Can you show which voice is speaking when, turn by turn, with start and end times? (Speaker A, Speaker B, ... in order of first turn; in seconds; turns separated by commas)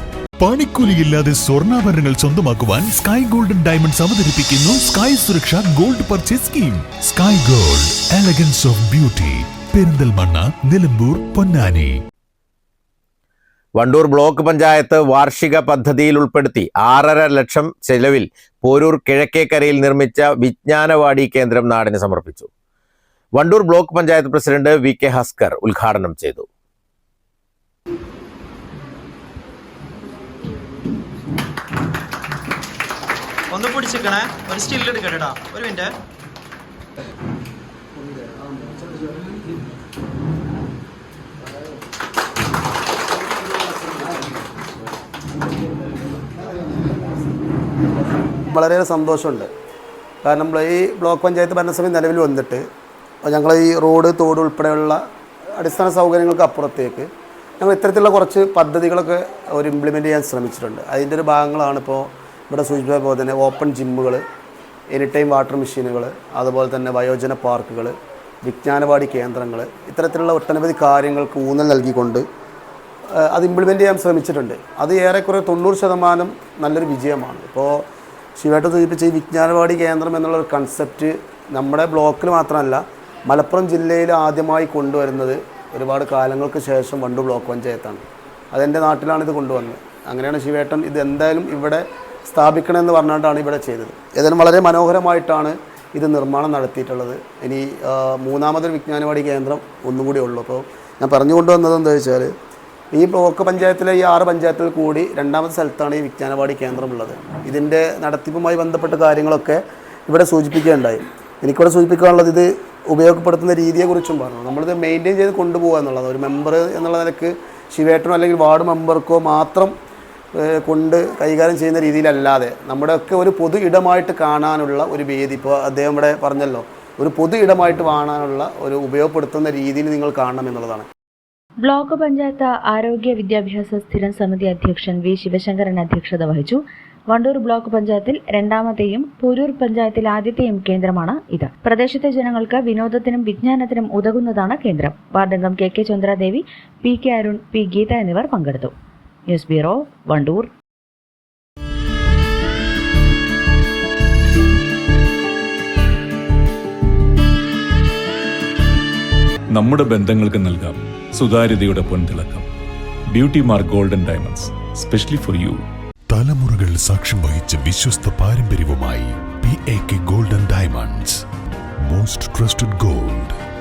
Speaker A: 0.4-11.9, Speaker B: 13.8-22.5, Speaker B: 23.4-26.5, Speaker C: 33.5-36.0, Speaker D: 48.5-49.5, Speaker D: 50.2-52.6, Speaker D: 53.2-55.0, Speaker D: 55.6-57.1, Speaker D: 57.6-64.2, Speaker D: 64.9-72.2, Speaker D: 73.2-77.8, Speaker D: 78.4-102.3, Speaker D: 102.9-119.7, Speaker D: 120.3-130.9, Speaker E: 131.6-148.7, Speaker E: 149.3-150.5, Speaker F: 159.5-162.5, Speaker F: 163.1-165.6, Speaker A: 166.1-171.2, Speaker A: 171.9-173.4